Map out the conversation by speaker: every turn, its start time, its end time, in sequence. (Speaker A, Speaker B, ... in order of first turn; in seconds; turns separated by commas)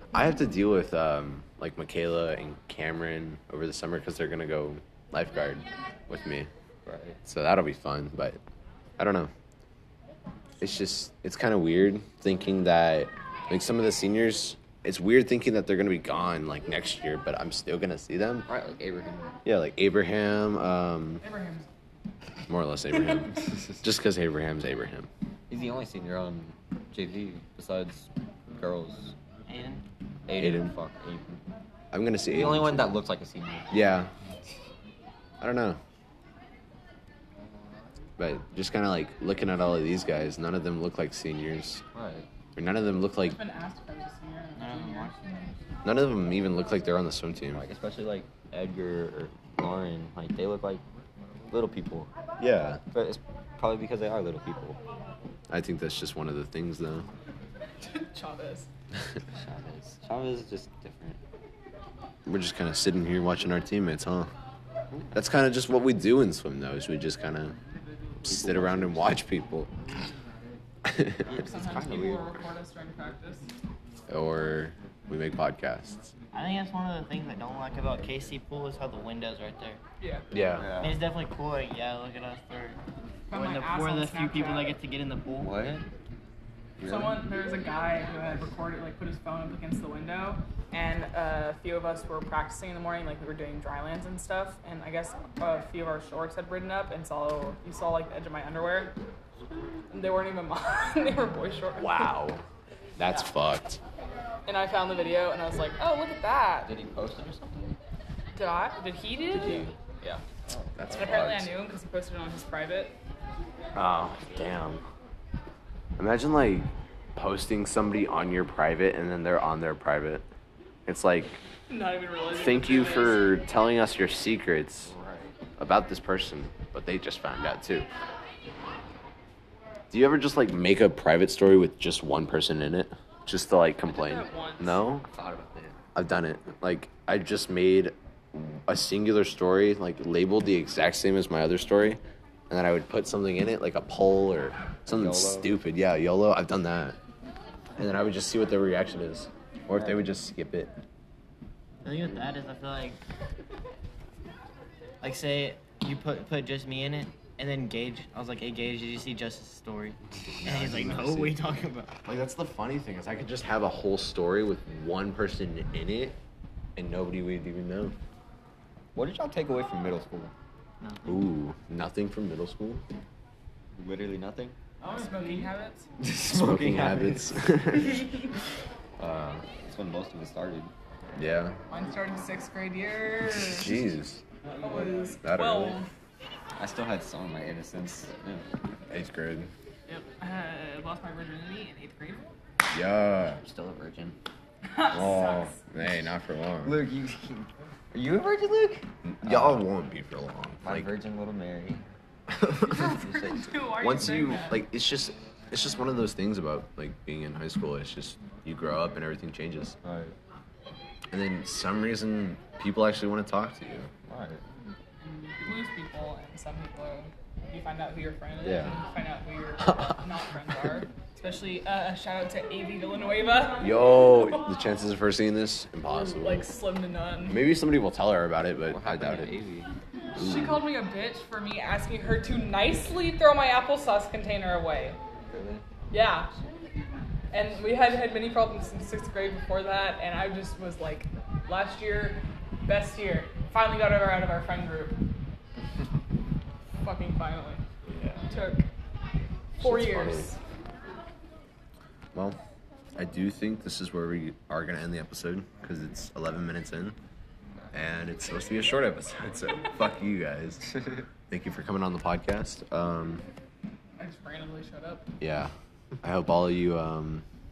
Speaker A: 0.1-6.5, Speaker B: 6.8-7.2, Speaker A: 7.2-8.4, Speaker A: 9.0-9.3, Speaker A: 10.6-18.5, Speaker B: 18.4-19.4, Speaker A: 19.4-21.3, Speaker C: 21.2-21.7, Speaker A: 22.5-25.1, Speaker B: 25.5-29.1, Speaker D: 29.5-29.9, Speaker B: 30.3-31.4, Speaker A: 30.3-30.8, Speaker A: 31.9-33.0, Speaker B: 32.3-33.8, Speaker A: 33.7-34.1, Speaker A: 35.4-35.8, Speaker A: 38.2-41.8, Speaker B: 41.9-42.3, Speaker A: 42.5-43.4, Speaker C: 43.2-45.5, Speaker D: 44.5-45.2, Speaker A: 45.8-47.6, Speaker B: 47.5-50.8, Speaker B: 51.5-52.1, Speaker A: 52.4-52.8, Speaker B: 52.9-54.8, Speaker A: 55.5-57.1, Speaker C: 57.8-58.7, Speaker B: 59.3-61.2, Speaker A: 62.2-64.3, Speaker A: 65.1-67.6, Speaker A: 68.2-69.7, Speaker A: 70.8-71.2, Speaker C: 71.2-73.5, Speaker B: 71.3-72.5, Speaker A: 74.1-76.1, Speaker D: 76.3-79.8, Speaker A: 80.3-80.7, Speaker B: 80.5-81.0, Speaker D: 80.8-82.8, Speaker C: 83.3-84.8, Speaker D: 83.3-85.5, Speaker B: 85.4-85.9, Speaker B: 86.8-87.2, Speaker C: 86.8-98.9, Speaker C: 99.9-102.2, Speaker A: 101.8-102.4, Speaker A: 103.0-103.8, Speaker C: 104.5-106.7, Speaker B: 106.6-107.8, Speaker C: 108.3-110.2, Speaker B: 109.3-109.8, Speaker B: 110.5-111.0, Speaker A: 110.8-111.5, Speaker C: 110.9-113.0, Speaker A: 113.7-114.8, Speaker A: 116.0-120.2, Speaker A: 120.8-121.4, Speaker C: 121.7-123.3, Speaker A: 122.3-124.9, Speaker B: 124.8-125.3, Speaker A: 125.6-127.9, Speaker A: 129.9-135.1, Speaker C: 133.9-134.8, Speaker B: 135.1-135.8, Speaker A: 135.9-147.0, Speaker B: 144.8-145.5, Speaker A: 147.8-150.7, Speaker D: 151.8-153.0, Speaker D: 155.0-162.1, Speaker A: 160.4-161.4, Speaker A: 162.1-166.2, Speaker A: 166.8-167.9, Speaker B: 168.9-170.3, Speaker D: 170.8-171.3, Speaker A: 171.1-172.8, Speaker B: 173.8-174.6, Speaker C: 174.8-175.9, Speaker B: 176.0-177.4, Speaker A: 176.3-178.0, Speaker A: 179.0-179.4, Speaker B: 179.5-180.7, Speaker A: 181.1-181.6, Speaker C: 181.7-183.7, Speaker A: 183.4-184.2, Speaker C: 184.6-185.9, Speaker A: 185.2-185.8, Speaker B: 186.6-188.5, Speaker A: 188.9-189.5, Speaker C: 189.9-192.3, Speaker A: 192.7-193.4, Speaker B: 193.4-194.2, Speaker C: 194.7-195.6, Speaker A: 194.9-196.8, Speaker B: 196.6-199.7, Speaker A: 199.2-200.9, Speaker B: 200.6-201.8, Speaker A: 202.3-203.0, Speaker C: 202.6-204.7, Speaker B: 202.9-203.6, Speaker A: 203.7-209.8, Speaker B: 209.8-210.2, Speaker A: 211.1-213.9, Speaker B: 214.1-214.4, Speaker C: 215.0-224.3, Speaker A: 218.4-218.8, Speaker A: 219.7-220.0, Speaker A: 223.6-226.5, Speaker C: 225.9-227.4, Speaker A: 227.2-229.3, Speaker B: 228.7-229.7, Speaker A: 230.1-230.7, Speaker C: 230.1-235.0, Speaker B: 235.3-235.6, Speaker C: 235.9-236.3, Speaker C: 237.3-245.0, Speaker C: 246.8-247.6, Speaker A: 247.9-248.2, Speaker C: 248.3-248.7, Speaker A: 249.6-250.3, Speaker C: 249.6-250.4, Speaker A: 252.9-256.9, Speaker A: 257.7-260.7, Speaker A: 261.3-263.2, Speaker C: 264.0-265.1, Speaker A: 265.2-267.2